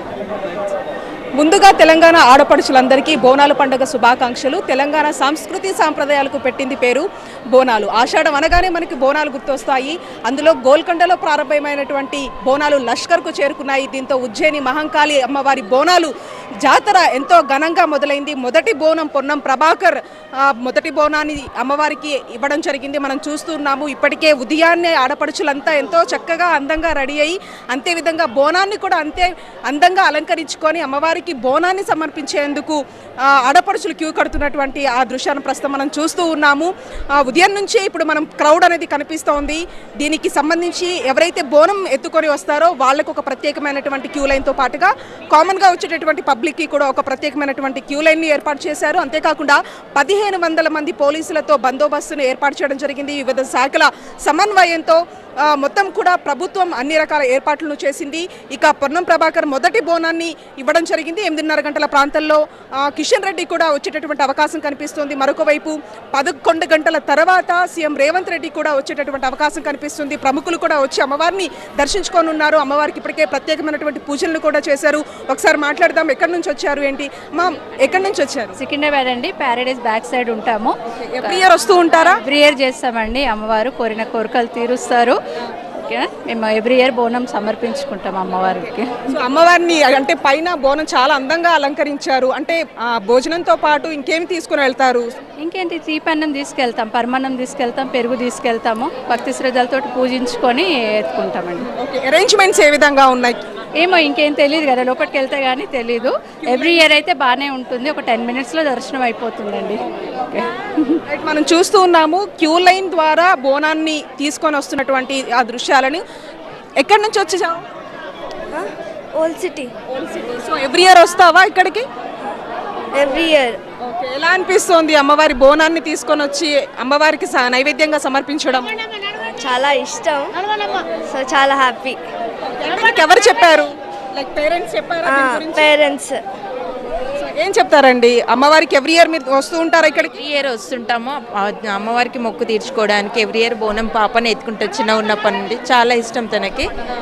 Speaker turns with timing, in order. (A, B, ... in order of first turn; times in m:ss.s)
0:01.4-1:18.6 A
1:18.6-1:20.7 B
1:20.9-1:22.2 A
1:22.2-1:25.2 B
1:25.8-1:29.0 B
1:29.1-1:35.1 A
1:35.4-1:41.7 B
1:41.6-1:43.4 A
1:43.8-1:51.0 B
1:46.5-1:46.8 A
1:51.1-1:56.0 A
1:56.8-1:57.6 A
1:58.5-1:59.7 C
1:59.9-2:01.8 A
2:03.0-2:03.6 C
2:03.8-2:08.7 A
2:09.4-2:10.4 C
2:11.1-2:12.0 C
2:12.6-2:15.7 A
2:15.3-2:16.2 C
2:17.2-2:20.1 A
2:20.2-2:26.7 D